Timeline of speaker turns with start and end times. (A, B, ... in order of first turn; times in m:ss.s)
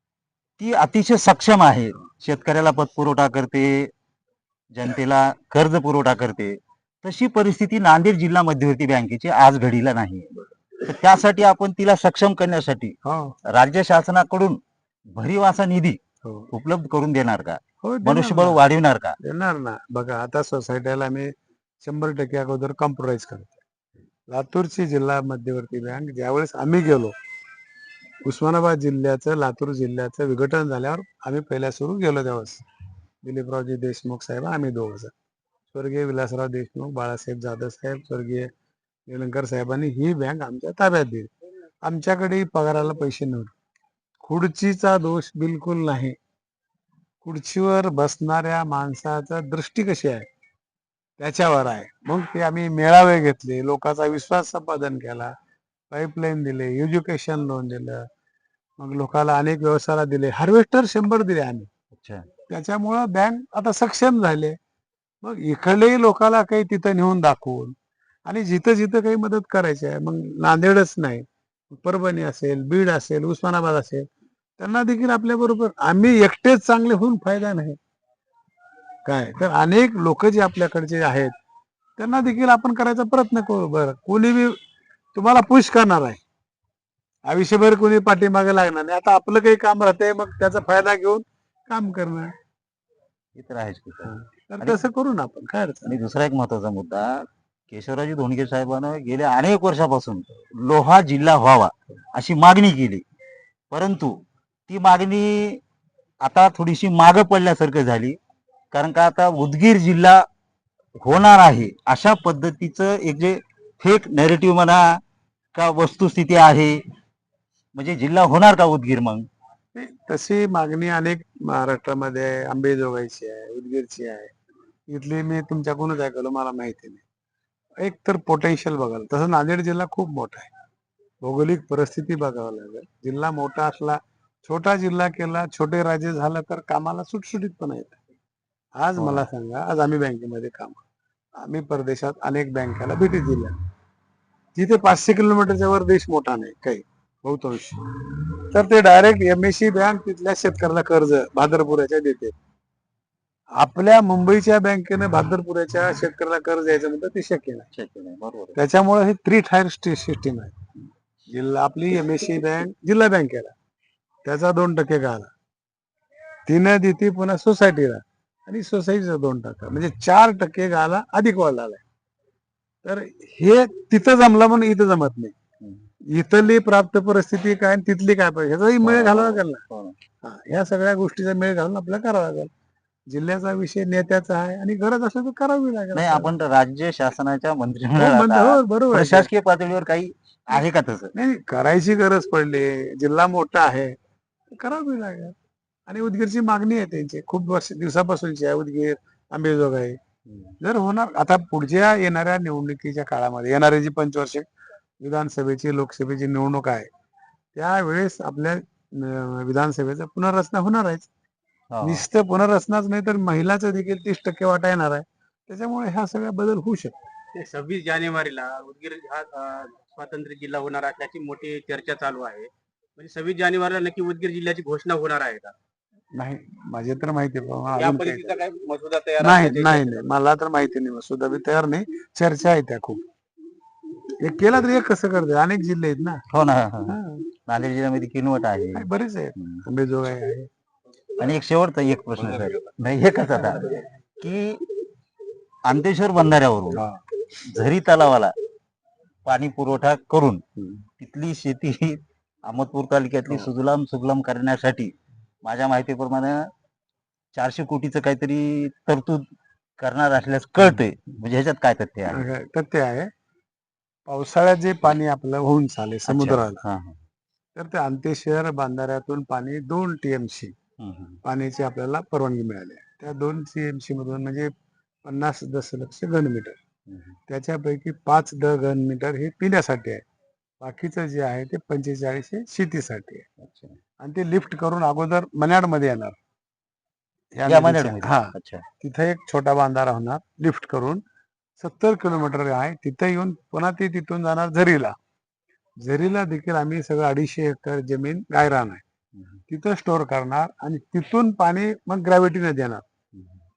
0:00.6-0:03.9 A
0:04.7-0:10.3 A
0:10.8-0:12.9 A
0:13.0-0:13.3 B
0:13.5-0:14.6 A
0:15.1-0:16.0 A
0:16.2-0:16.5 B
0:16.5-0:19.2 A
0:17.8-0:18.6 B
0:19.2-0:21.3 B
0:21.8-0:23.6 B
0:24.3-0:27.1 B
0:28.2-0:32.6 B
0:33.2-0:35.1 B
0:35.7-0:38.5 B
0:39.1-0:41.3 B
0:41.8-0:43.5 B
0:44.2-0:46.2 B
0:47.2-0:50.2 B
0:51.2-0:55.3 B
0:55.9-0:58.0 B
0:58.8-1:01.7 B
1:01.9-1:02.2 A
1:02.5-1:04.6 B
1:05.2-1:07.7 B
1:08.2-1:14.1 B
1:14.6-1:17.8 B
1:19.0-1:21.3 B
1:22.0-1:24.6 B
1:25.1-1:26.2 B
1:27.3-1:32.3 B
1:33.4-1:34.8 A
1:34.0-1:36.0 B
1:35.8-1:43.0 A
1:43.7-1:44.2 A
1:44.7-1:45.6 A
1:46.2-1:48.2 A
1:48.7-1:50.2 A
1:51.0-1:54.8 A
1:55.5-1:56.8 A
1:57.8-1:59.2 A
1:59.7-2:04.3 B
2:04.9-2:07.0 B
2:07.8-2:10.5 B
2:11.2-2:18.0 B
2:18.8-2:20.8 B
2:19.0-2:19.3 A
2:21.4-2:23.5 B
2:24.5-2:27.8 B
2:28.5-2:32.3 B
2:33.6-2:37.7 B
2:37.7-2:38.6 A
2:38.6-2:40.6 B
2:41.3-2:43.5 B
2:44.2-2:45.3 B
2:46.4-2:51.8 B
2:52.8-2:55.3 B
2:55.6-2:55.9 A
2:56.1-2:59.6 B
2:58.8-3:00.0 A
3:00.2-3:02.5 B
3:03.1-3:06.3 B
3:05.9-3:11.1 A
3:08.0-3:09.3 B
3:11.1-3:13.9 B
3:14.6-3:15.3 B
3:15.9-3:20.0 B
3:20.6-3:24.4 B
3:25.0-3:26.9 B
3:27.5-3:31.1 B
3:31.7-3:32.0 A
3:31.8-3:36.9 B
3:37.3-3:45.5 C
3:46.2-3:48.4 B
3:47.8-3:50.1 C
3:49.2-3:53.0 B
3:54.2-3:56.2 B
3:56.3-3:59.6 A
3:56.9-3:57.2 B
3:58.7-4:00.5 B
4:01.2-4:04.6 A
4:05.7-4:06.8 A
4:06.7-4:07.0 B
4:07.4-4:08.3 A
4:09.2-4:10.4 A
4:10.6-4:10.8 B
4:11.0-4:16.5 A
4:17.3-4:19.2 A
4:19.8-4:22.2 A
4:22.1-4:23.1 B
4:24.1-4:26.6 B
4:26.1-4:27.0 A
4:27.6-4:30.5 B
4:30.8-4:31.2 A
4:31.2-4:34.5 B
4:35.0-4:36.6 B
4:37.3-4:40.0 B
4:40.6-4:43.2 B
4:43.4-4:43.8 A
4:44.0-4:46.2 B
4:47.4-4:51.0 B
4:47.4-4:48.6 A
4:51.6-4:54.9 B
4:55.8-4:58.8 B
4:59.5-5:02.8 B